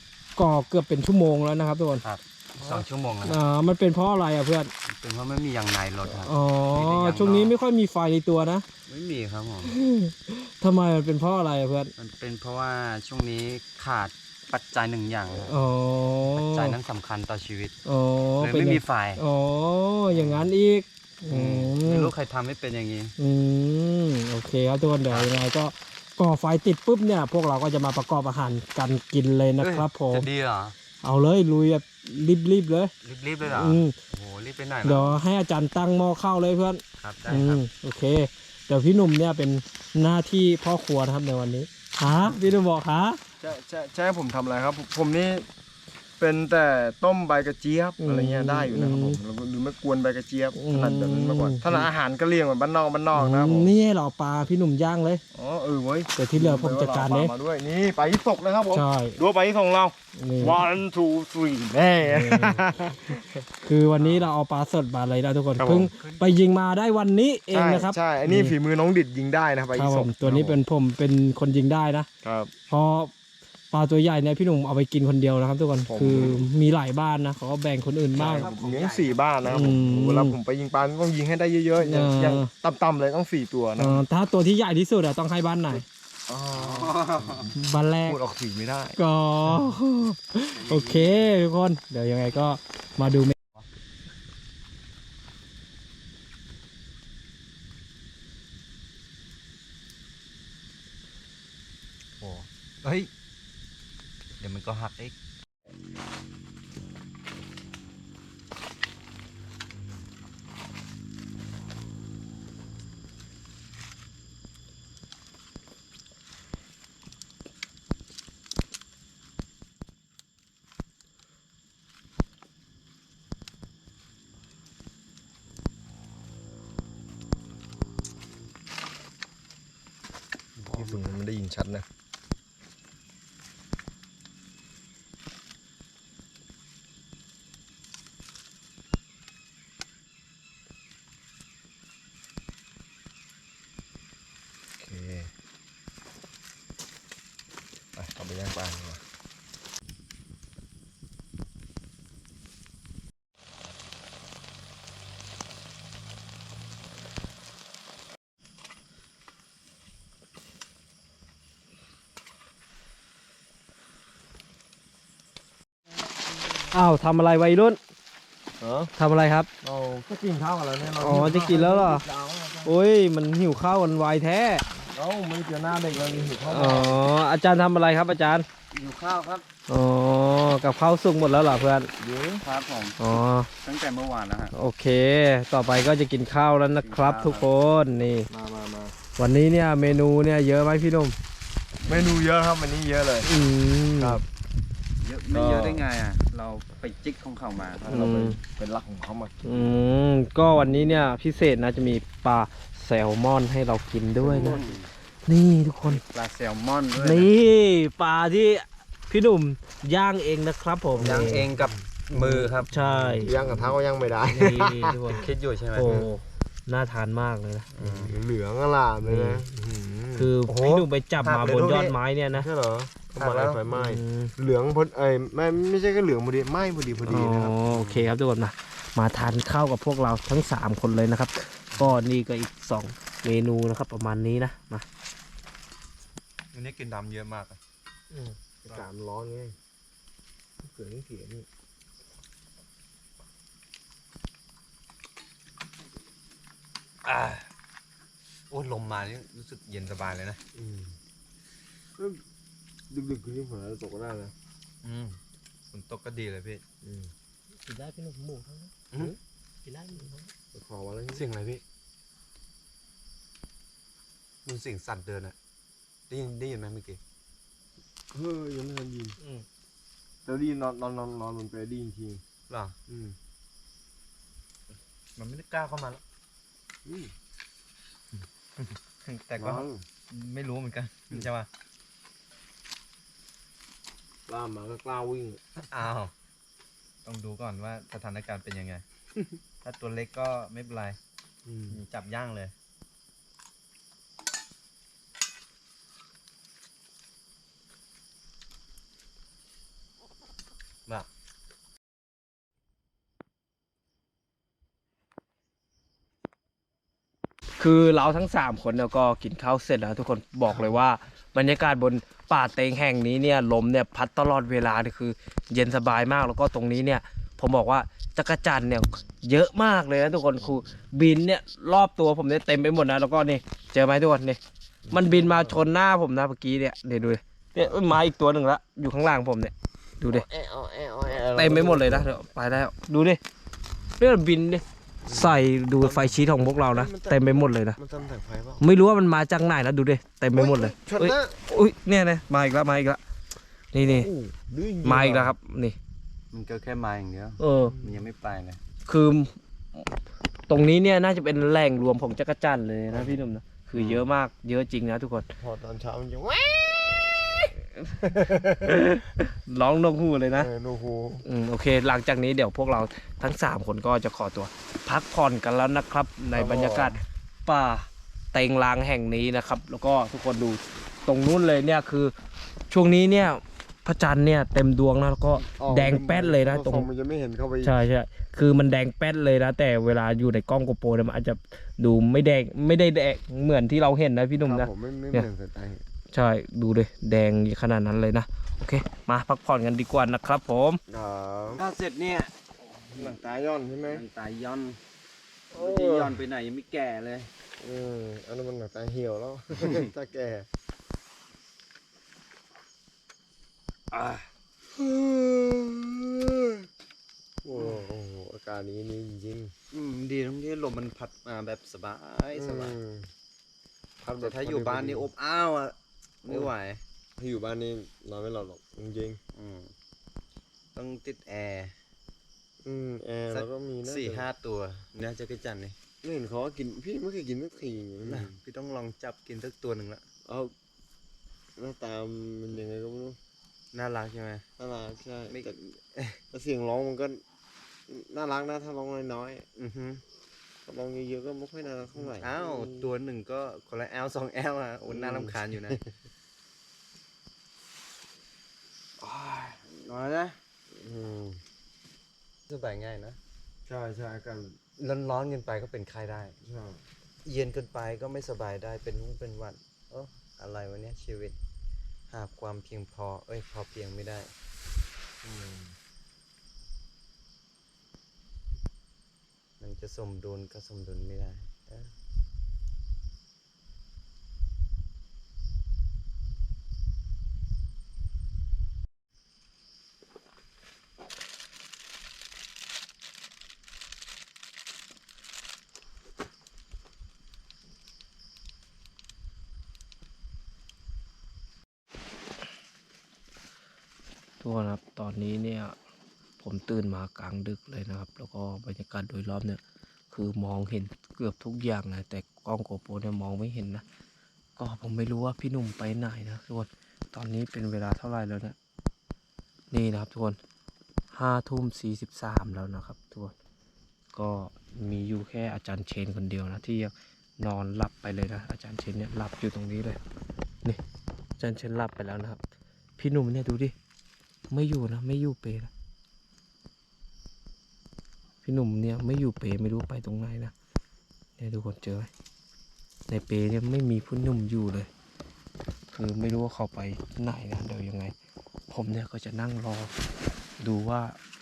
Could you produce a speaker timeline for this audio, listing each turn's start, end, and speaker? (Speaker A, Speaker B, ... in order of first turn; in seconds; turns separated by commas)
Speaker A: 0.3-2.0, Speaker B: 2.0-3.4, Speaker A: 3.2-4.7, Speaker B: 4.8-7.5, Speaker A: 6.2-8.6, Speaker B: 8.9-9.8, Speaker A: 9.6-11.9, Speaker B: 12.0-15.5, Speaker A: 15.5-16.7, Speaker B: 16.3-17.7, Speaker A: 17.9-22.1, Speaker B: 18.4-19.2, Speaker B: 20.1-20.5, Speaker B: 21.3-23.1, Speaker A: 23.2-30.3, Speaker B: 25.0-25.3, Speaker B: 29.6-30.8, Speaker A: 31.0-32.9, Speaker B: 33.0-35.2, Speaker A: 33.4-33.9, Speaker A: 34.8-43.2, Speaker B: 37.0-37.6, Speaker C: 43.4-45.5, Speaker C: 46.2-53.7, Speaker A: 48.0-49.2, Speaker A: 50.5-51.9, Speaker A: 53.1-55.2, Speaker C: 55.3-63.4, Speaker A: 56.1-57.3, Speaker A: 58.7-59.2, Speaker A: 60.1-60.6, Speaker A: 62.0-62.7, Speaker A: 63.6-68.5, Speaker C: 64.0-64.3, Speaker C: 65.6-65.9, Speaker B: 65.9-66.3, Speaker C: 67.5-70.6, Speaker A: 69.7-72.1, Speaker C: 72.2-72.5, Speaker A: 72.7-73.1, Speaker A: 73.7-78.5, Speaker C: 75.9-76.5, Speaker B: 78.1-79.3, Speaker C: 78.1-84.0, Speaker A: 79.4-80.4, Speaker A: 81.8-82.5, Speaker A: 83.8-85.8, Speaker C: 86.3-87.5, Speaker B: 86.5-87.5, Speaker A: 87.5-88.2, Speaker C: 88.0-89.7, Speaker A: 89.0-93.3, Speaker B: 90.5-91.2, Speaker B: 102.2-103.1, Speaker B: 104.4-105.1, Speaker B: 130.6-131.1, Speaker C: 130.7-131.8, Speaker C: 144.8-145.3, Speaker C: 147.9-149.0, Speaker A: 166.7-167.8, Speaker C: 168.6-168.9, Speaker A: 169.0-169.5, Speaker C: 169.6-172.7, Speaker A: 170.9-172.0, Speaker A: 172.6-174.6, Speaker C: 174.7-177.0, Speaker A: 176.5-178.4, Speaker B: 178.7-179.4, Speaker A: 179.7-181.9, Speaker C: 182.0-182.4, Speaker B: 182.4-184.5, Speaker A: 183.0-183.5, Speaker A: 184.5-188.3, Speaker B: 186.8-187.4, Speaker C: 188.3-188.9, Speaker A: 189.2-191.1, Speaker C: 191.8-193.3, Speaker B: 191.8-192.1, Speaker A: 193.2-194.2, Speaker B: 195.0-198.2, Speaker C: 195.3-195.9, Speaker C: 197.9-199.7, Speaker A: 197.9-198.4, Speaker A: 199.4-204.6, Speaker B: 204.2-204.9, Speaker C: 204.3-204.7, Speaker A: 205.2-206.0, Speaker B: 205.8-207.3, Speaker A: 207.0-211.5, Speaker B: 211.0-213.7, Speaker C: 211.0-211.8, Speaker A: 212.2-213.3, Speaker C: 212.4-215.2, Speaker A: 214.3-215.2, Speaker B: 215.1-216.0, Speaker A: 215.7-217.7, Speaker C: 215.8-216.1, Speaker B: 217.8-218.1, Speaker C: 217.8-220.4, Speaker A: 219.0-219.4, Speaker A: 220.2-222.5, Speaker B: 220.5-222.0, Speaker C: 222.3-227.6, Speaker B: 223.2-223.6, Speaker A: 223.7-224.3, Speaker A: 227.0-234.8, Speaker B: 227.6-228.1, Speaker B: 236.5-237.6, Speaker C: 238.2-239.6, Speaker C: 240.6-241.4, Speaker B: 247.0-247.5, Speaker B: 248.5-250.4, Speaker C: 250.5-250.9, Speaker C: 252.9-254.3, Speaker B: 254.8-255.2, Speaker B: 255.7-256.6, Speaker C: 256.8-257.1, Speaker A: 257.6-258.7, Speaker B: 258.9-259.1, Speaker A: 259.6-260.3, Speaker C: 260.5-261.2, Speaker B: 261.1-261.6, Speaker B: 264.4-265.3, Speaker B: 266.1-267.0, Speaker C: 268.1-269.2, Speaker A: 269.2-269.4, Speaker C: 270.2-272.2, Speaker B: 272.5-272.8, Speaker C: 272.9-273.1, Speaker B: 275.1-276.0, Speaker C: 276.8-277.1, Speaker B: 278.6-281.5, Speaker C: 279.4-279.8, Speaker C: 284.3-285.4, Speaker B: 285.6-286.1, Speaker B: 287.0-288.8, Speaker B: 289.6-291.0, Speaker C: 291.4-291.8, Speaker B: 291.7-292.5, Speaker A: 307.6-324.4, Speaker C: 324.9-325.5, Speaker A: 324.9-330.2, Speaker C: 330.0-332.2, Speaker A: 331.3-333.2, Speaker A: 334.0-337.8, Speaker C: 335.1-338.6, Speaker A: 338.6-343.0, Speaker C: 340.3-341.4, Speaker A: 343.7-344.1, Speaker C: 343.7-345.3, Speaker A: 344.8-345.8, Speaker B: 346.3-348.6, Speaker A: 347.4-347.7, Speaker C: 347.6-348.1, Speaker A: 348.9-349.9, Speaker A: 350.5-355.3, Speaker C: 352.9-353.2, Speaker B: 353.7-354.1, Speaker C: 355.4-358.8, Speaker A: 358.1-360.5, Speaker C: 360.3-361.2, Speaker A: 361.2-372.1, Speaker C: 366.3-367.0, Speaker A: 372.7-376.9, Speaker C: 375.3-377.8, Speaker A: 377.6-385.3, Speaker C: 384.4-385.8, Speaker A: 386.1-390.8, Speaker C: 390.9-391.6, Speaker B: 391.6-393.1, Speaker C: 392.9-394.0, Speaker B: 393.9-394.8, Speaker C: 395.5-396.2, Speaker B: 395.5-397.3, Speaker C: 397.6-400.5, Speaker B: 399.6-399.9, Speaker B: 403.9-404.3, Speaker C: 404.6-406.7, Speaker C: 407.4-409.5, Speaker B: 407.5-407.8, Speaker B: 409.7-412.8, Speaker C: 412.3-413.1, Speaker C: 414.0-415.1, Speaker B: 414.1-416.8, Speaker C: 416.2-416.5, Speaker C: 417.2-419.2, Speaker B: 419.3-419.7, Speaker B: 420.7-421.8, Speaker C: 422.6-424.3, Speaker B: 423.3-425.8, Speaker C: 426.0-428.3, Speaker B: 428.1-430.0, Speaker C: 430.2-430.5, Speaker C: 431.6-433.2, Speaker B: 433.7-434.4, Speaker C: 434.6-435.6, Speaker B: 435.3-436.2, Speaker C: 436.3-437.2, Speaker C: 437.9-439.4, Speaker B: 439.6-440.0, Speaker C: 440.6-442.9, Speaker B: 442.0-445.8, Speaker C: 444.9-445.7, Speaker B: 449.0-450.4, Speaker C: 450.7-451.4, Speaker B: 452.5-453.2, Speaker C: 453.6-454.6, Speaker B: 454.8-456.4, Speaker C: 456.4-456.8, Speaker B: 457.2-461.4, Speaker B: 462.1-464.3, Speaker C: 465.2-465.7, Speaker B: 469.6-471.9, Speaker A: 494.4-495.8, Speaker A: 496.4-499.6, Speaker A: 500.1-503.8, Speaker A: 504.6-508.6, Speaker A: 509.7-510.4, Speaker A: 511.1-513.3, Speaker A: 514.1-520.0, Speaker A: 521.4-522.4, Speaker A: 523.0-523.7, Speaker A: 524.5-525.7, Speaker A: 528.4-530.5, Speaker A: 531.4-532.1, Speaker A: 533.1-534.9, Speaker A: 535.9-538.1, Speaker A: 538.7-539.9, Speaker A: 540.6-541.2